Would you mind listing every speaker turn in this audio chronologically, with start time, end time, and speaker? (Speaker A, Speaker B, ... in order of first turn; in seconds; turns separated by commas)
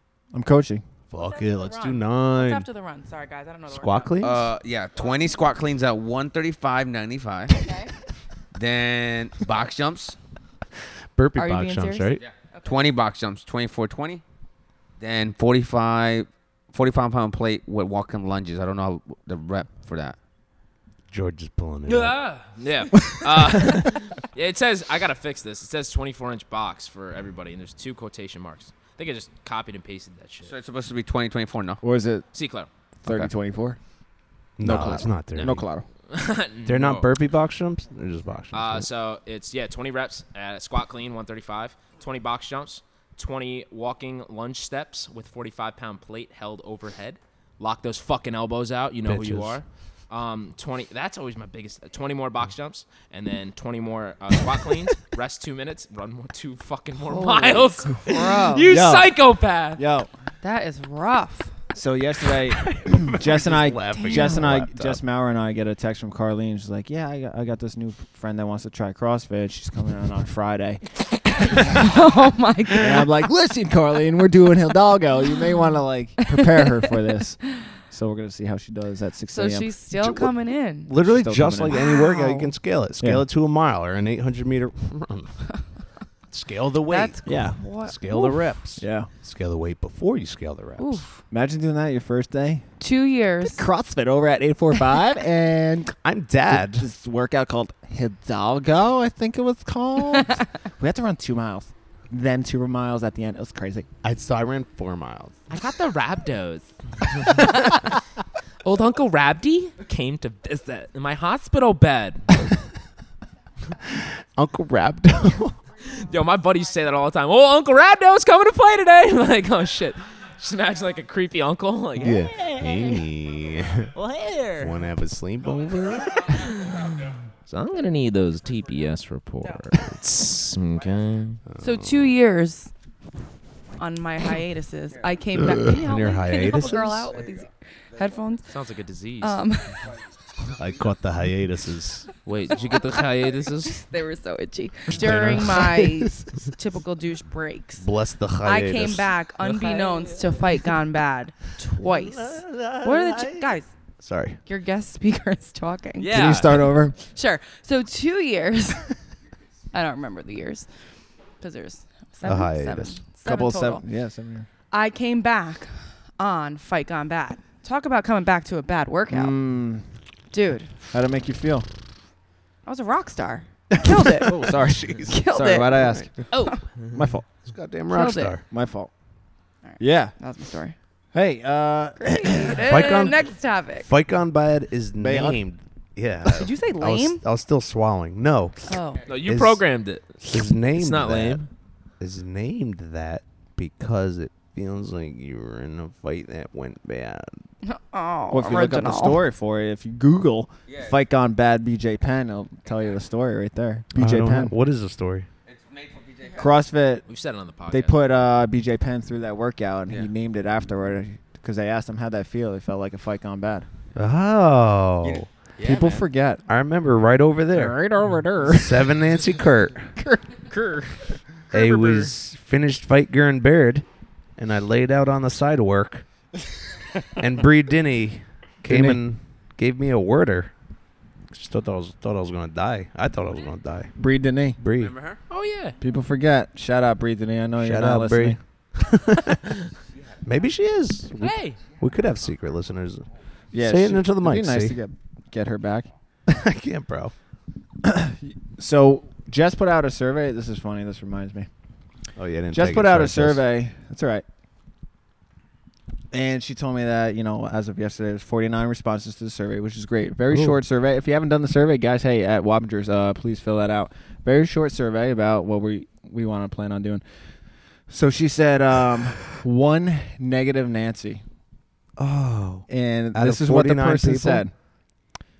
Speaker A: 0.3-0.8, Speaker B: 1.1-2.7, Speaker C: 1.1-4.2, Speaker B: 3.7-4.5, Speaker D: 4.2-7.6, Speaker C: 7.6-7.9, Speaker D: 8.6-10.2, Speaker B: 11.2-12.2, Speaker C: 11.3-12.8, Speaker D: 12.2-14.2, Speaker D: 15.0-20.2, Speaker B: 21.1-22.2, Speaker E: 21.9-30.5, Speaker D: 30.4-31.8, Speaker A: 31.8-32.2, Speaker E: 32.3-32.7, Speaker A: 33.0-33.8, Speaker B: 34.6-35.6, Speaker A: 34.6-35.9, Speaker E: 35.4-37.1, Speaker B: 36.6-38.9, Speaker E: 38.5-59.8, Speaker B: 49.0-49.6, Speaker C: 57.1-58.7, Speaker A: 58.7-59.1, Speaker A: 59.8-60.1, Speaker C: 60.4-61.5, Speaker A: 61.7-71.0, Speaker B: 62.6-65.0, Speaker C: 64.0-64.4, Speaker C: 71.6-73.1, Speaker A: 72.8-79.7, Speaker C: 76.3-76.5, Speaker C: 79.3-80.9, Speaker B: 80.0-85.4, Speaker A: 81.0-81.8, Speaker C: 81.7-82.5, Speaker A: 83.0-83.2, Speaker B: 86.3-91.0, Speaker C: 86.9-88.5, Speaker A: 87.3-87.5, Speaker A: 88.8-89.1, Speaker C: 90.8-91.2, Speaker A: 91.3-92.6, Speaker C: 92.8-93.6, Speaker A: 93.4-96.0, Speaker B: 96.0-96.8, Speaker A: 96.5-103.9, Speaker B: 104.0-105.4, Speaker E: 105.5-107.9, Speaker E: 108.6-112.2, Speaker B: 113.9-115.6, Speaker E: 115.8-123.1, Speaker B: 122.0-123.9, Speaker E: 123.9-124.8, Speaker B: 124.6-126.4, Speaker E: 126.2-126.9, Speaker E: 127.5-131.4, Speaker B: 131.5-132.1, Speaker C: 131.6-132.7, Speaker C: 133.8-138.5, Speaker B: 135.5-137.1, Speaker D: 137.2-137.4, Speaker E: 138.5-139.4, Speaker C: 139.2-139.8, Speaker B: 140.6-142.1, Speaker E: 142.2-143.8, Speaker C: 143.6-147.8, Speaker B: 144.9-145.8, Speaker A: 145.2-146.4, Speaker B: 147.8-149.1, Speaker C: 148.4-153.7, Speaker E: 149.4-150.2, Speaker B: 151.8-154.4, Speaker C: 154.4-156.3, Speaker E: 155.9-156.7, Speaker A: 156.1-156.9, Speaker C: 157.0-158.9, Speaker C: 159.7-160.7, Speaker C: 161.4-163.8, Speaker B: 162.2-163.0, Speaker A: 163.2-164.5, Speaker C: 164.7-169.3, Speaker A: 169.1-169.8, Speaker C: 170.3-170.7, Speaker A: 170.9-171.7, Speaker C: 172.7-174.6, Speaker A: 173.8-176.2, Speaker B: 174.5-175.2, Speaker C: 175.1-175.9, Speaker E: 176.3-176.6, Speaker A: 176.9-177.2, Speaker B: 177.4-178.4, Speaker C: 177.9-178.4, Speaker A: 178.5-178.9, Speaker C: 179.7-180.7, Speaker A: 179.8-180.2, Speaker A: 181.1-182.7, Speaker C: 182.0-183.9, Speaker B: 182.6-189.6, Speaker A: 185.0-185.4, Speaker C: 186.2-187.2, Speaker C: 188.7-189.0, Speaker E: 189.1-191.5, Speaker B: 190.2-191.4, Speaker B: 192.0-197.4, Speaker C: 197.6-199.2, Speaker A: 198.3-204.5, Speaker D: 200.7-201.0, Speaker B: 203.9-205.3, Speaker D: 205.4-206.5, Speaker A: 206.4-207.1, Speaker E: 207.1-208.0, Speaker A: 207.7-213.7, Speaker B: 213.9-215.2, Speaker D: 215.0-216.0, Speaker A: 215.6-216.4, Speaker B: 216.5-217.8, Speaker A: 217.5-219.2, Speaker B: 218.4-219.9, Speaker A: 219.9-221.1, Speaker E: 221.5-222.1, Speaker B: 221.5-223.8, Speaker B: 224.4-226.0, Speaker B: 227.2-230.5, Speaker A: 228.6-229.0, Speaker B: 231.3-233.9, Speaker A: 234.0-234.6, Speaker B: 234.6-234.9, Speaker D: 234.8-235.2, Speaker E: 235.3-235.8, Speaker A: 235.8-238.4, Speaker B: 237.6-239.4, Speaker D: 239.9-240.2, Speaker B: 240.2-244.8, Speaker E: 241.2-241.6, Speaker A: 243.5-245.9, Speaker B: 246.3-247.1, Speaker A: 247.8-251.5, Speaker B: 252.2-253.4, Speaker A: 252.5-254.2, Speaker A: 256.1-267.0, Speaker B: 260.3-260.6, Speaker A: 267.9-271.2, Speaker B: 272.0-274.4, Speaker A: 272.7-274.5